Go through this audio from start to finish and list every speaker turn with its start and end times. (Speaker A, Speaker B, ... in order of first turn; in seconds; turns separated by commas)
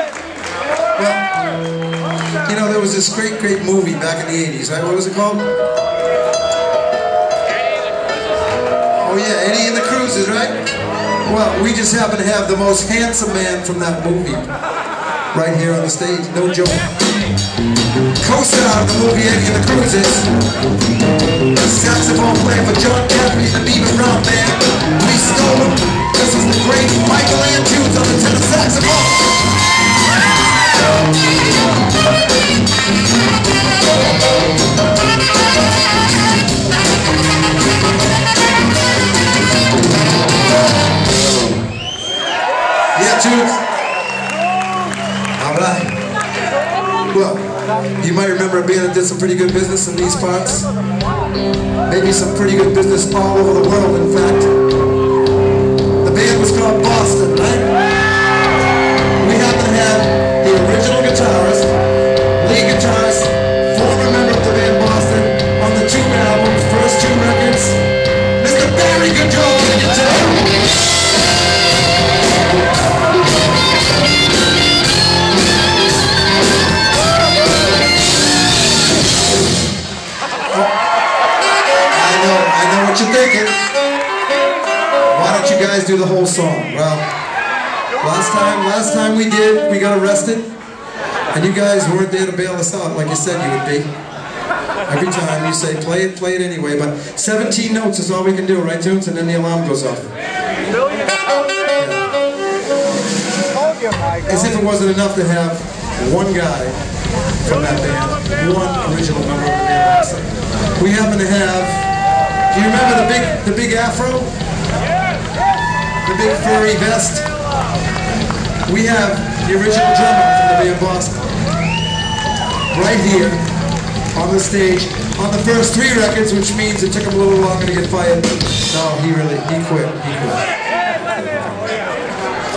Speaker A: 0.9-1.3, Speaker A: 2.4-5.5, Speaker A: 9.0-10.6, Speaker A: 11.2-14.5, Speaker A: 15.3-16.9, Speaker A: 18.2-20.3, Speaker A: 21.5-29.3, Speaker A: 42.9-43.6, Speaker A: 45.4-46.0, Speaker A: 47.1-50.7, Speaker A: 51.9-54.5, Speaker A: 56.0-57.7, Speaker A: 59.2-61.7, Speaker A: 62.4-67.8, Speaker A: 68.4-70.5, Speaker A: 81.9-83.6, Speaker A: 85.1-87.0, Speaker A: 88.0-90.5, Speaker A: 91.3-93.9, Speaker A: 94.9-100.1, Speaker A: 104.2-106.8, Speaker A: 107.5-111.9, Speaker A: 112.5-114.3, Speaker A: 116.0-117.3, Speaker A: 118.6-121.2, Speaker A: 122.7-123.4, Speaker A: 124.1-130.4